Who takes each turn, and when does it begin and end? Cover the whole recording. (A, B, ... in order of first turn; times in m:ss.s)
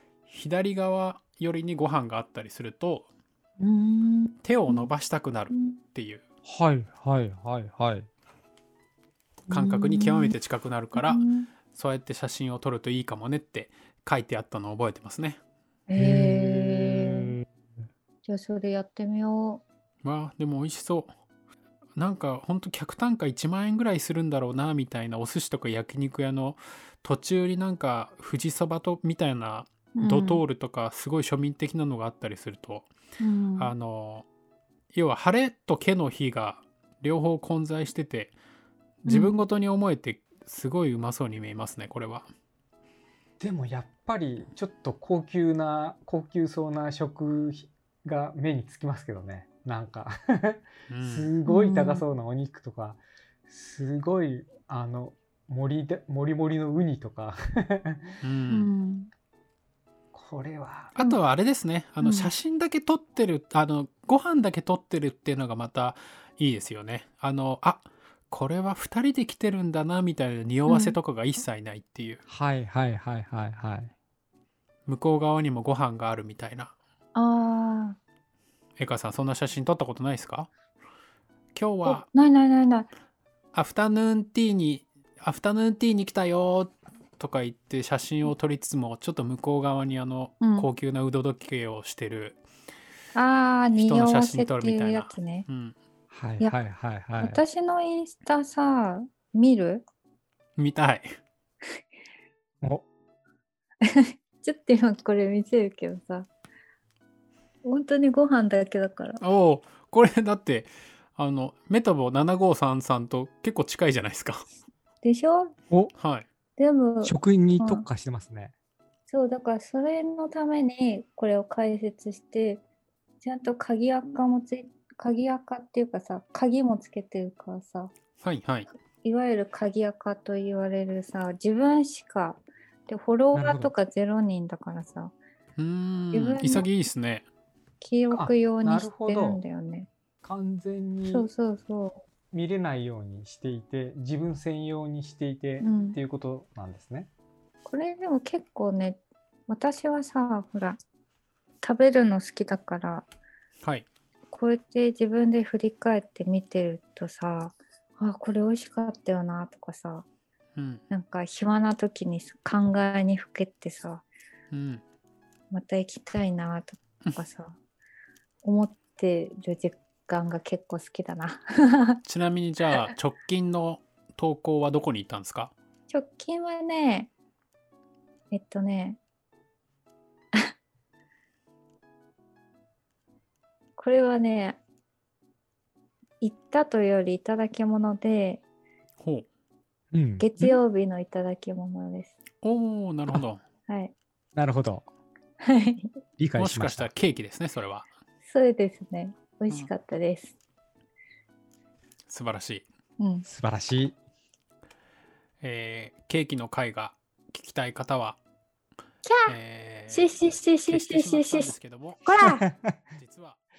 0:00.3-0:03.0 A
0:03.6-0:04.9 B
0:04.4-0:06.2 A
0:05.5-0:05.8 B
0:06.4-0:08.1 C
0:09.5-0:15.4 A
0:09.5-0:10.3 B
0:10.9-0:11.5 B
0:15.9-0:17.3 B
0:16.0-0:17.4 C
0:18.2-0:19.6 B
0:20.0-0:21.1 A
0:22.0-0:32.9 A
0:29.9-0:30.4 B
0:33.2-0:33.7 B
0:33.6-0:34.2 A
0:34.9-0:38.3 A
0:39.0-0:42.3 A
0:39.0-0:39.4 B
0:43.4-0:58.2 C
0:50.9-0:51.3 A
0:51.4-0:52.0 B
0:58.2-0:58.7 A
0:58.5-0:59.1 B
1:00.1-1:01.0 C
1:00.9-1:12.2 A
1:02.0-1:02.3 B
1:10.7-1:11.0 B
1:12.3-1:13.9 C
1:14.9-1:16.7 A
1:17.1-1:18.0 B
1:18.8-1:20.5 A
1:21.5-1:22.1 A
1:21.8-1:22.9 B
1:23.5-1:32.4 A
1:30.4-1:30.7 B
1:33.1-1:35.4 B
1:33.7-1:35.8 A
1:36.1-1:37.4 C
1:37.2-1:39.8 B
1:40.6-1:41.1 A
1:43.8-1:46.3 B
1:47.6-1:49.2 B
1:49.2-1:54.4 A
1:55.0-1:55.5 B
1:56.0-1:56.2 A
1:56.6-1:57.8 B
1:57.0-1:58.5 C
1:59.1-2:02.6 B
2:03.2-2:07.9 B
2:08.2-2:08.7 A
2:09.0-2:15.1 B
2:13.3-2:13.7 C
2:15.6-2:17.2 A
2:16.1-2:16.7 B
2:17.8-2:19.9 B
2:18.1-2:19.4 C
2:20.2-2:21.3 C
2:21.0-2:22.0 B
2:22.3-2:27.1 C
2:25.6-2:26.0 B
2:27.7-2:30.8 B
2:31.6-2:33.0 B
2:34.3-2:40.0 B
2:40.6-2:40.8 A
2:40.9-2:44.0 B
2:44.5-2:44.8 A
2:45.5-2:47.6 B
2:48.4-2:52.0 B
2:52.0-2:55.5 A
2:55.9-2:57.1 B
2:58.3-2:59.0 B
3:03.8-3:04.6 B
3:06.2-3:08.4 B
3:09.0-3:09.2 A
3:09.9-3:10.6 C
3:10.2-3:12.1 B
3:12.4-3:13.4 A
3:13.7-3:13.9 B
3:14.3-3:14.8 C
3:15.4-3:15.9 B
3:16.2-3:16.9 C
3:16.4-3:17.9 A
3:18.2-3:20.4 B
3:22.1-3:22.6 A
3:23.0-3:23.2 B
3:23.2-3:24.0 C
3:25.4-3:28.2 A
3:29.0-3:29.4 B
3:29.2-3:30.1 A
3:29.9-3:32.4 B
3:30.7-3:32.1 A
3:32.2-3:32.8 C
3:33.0-3:33.4 A